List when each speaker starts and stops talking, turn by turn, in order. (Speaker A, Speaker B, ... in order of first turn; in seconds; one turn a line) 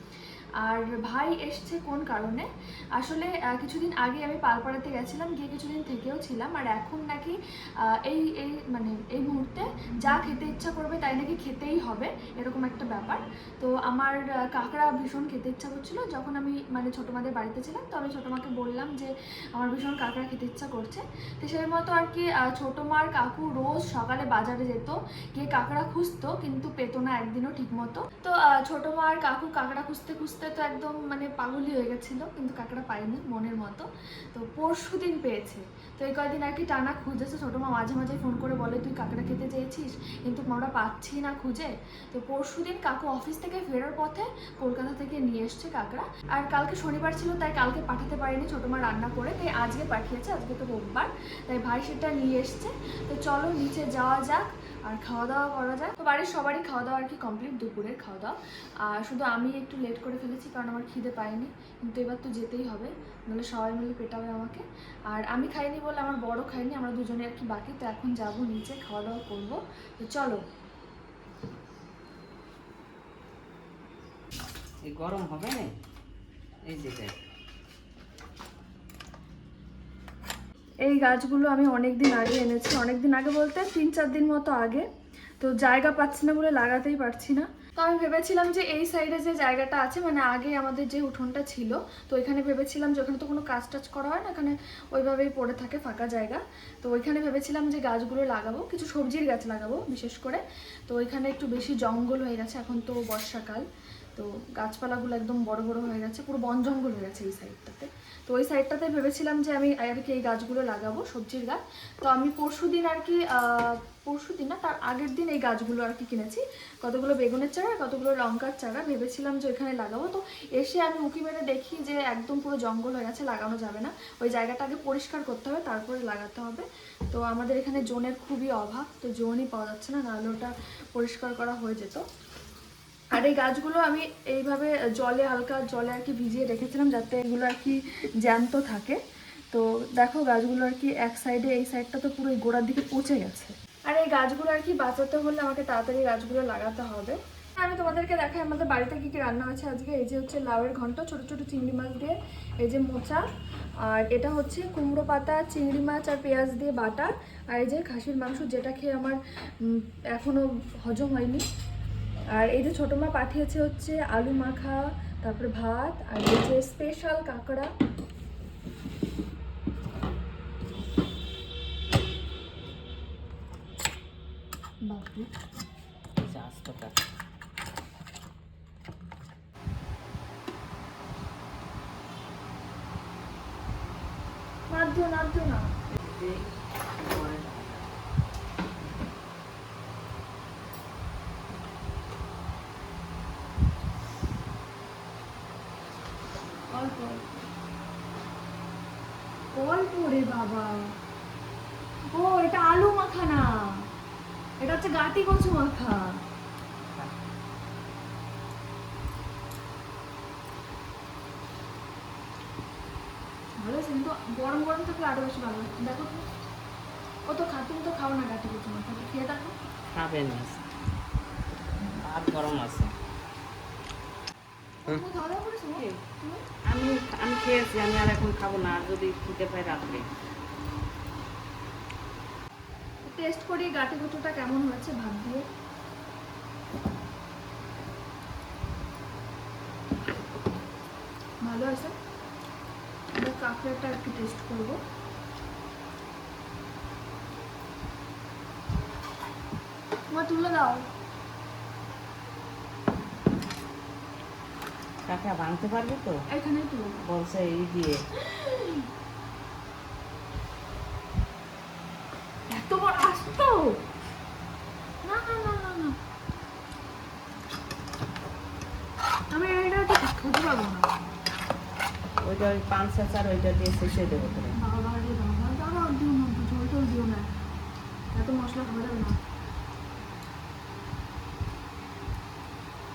Speaker A: 0.6-58.3
Speaker A: 58.9-70.4
Speaker B: 74.9-75.7
Speaker B: 76.7-77.2
Speaker A: 80.9-84.8
Speaker A: 85.4-103.6
Speaker A: 104.2-132.0
Speaker A: 133.1-139.0
Speaker A: 139.5-153.2
Speaker A: 153.9-161.4
Speaker A: 162.3-167.7
Speaker A: 174.9-175.3
Speaker B: 176.2-177.0
Speaker A: 184.7-185.7
Speaker B: 185.9-186.5
Speaker B: 187.0-187.9
Speaker A: 196.7-197.2
Speaker A: 199.5-200.9
Speaker A: 202.1-203.9
Speaker A: 204.6-206.2
Speaker A: 213.6-216.3
Speaker A: 217.3-219.6
Speaker B: 219.9-220.6
Speaker B: 222.0-222.9
Speaker A: 224.8-226.4
Speaker B: 226.7-230.1
Speaker A: 233.0-235.5
Speaker A: 241.4-242.0
Speaker A: 243.2-244.8
Speaker A: 250.1-250.8
Speaker B: 255.1-256.2
Speaker A: 256.3-257.0
Speaker B: 257.0-258.0
Speaker A: 258.2-258.9
Speaker A: 262.5-263.8
Speaker A: 265.0-266.0
Speaker A: 269.3-270.9
Speaker B: 272.2-274.6
Speaker A: 274.6-277.3
Speaker A: 278.1-279.2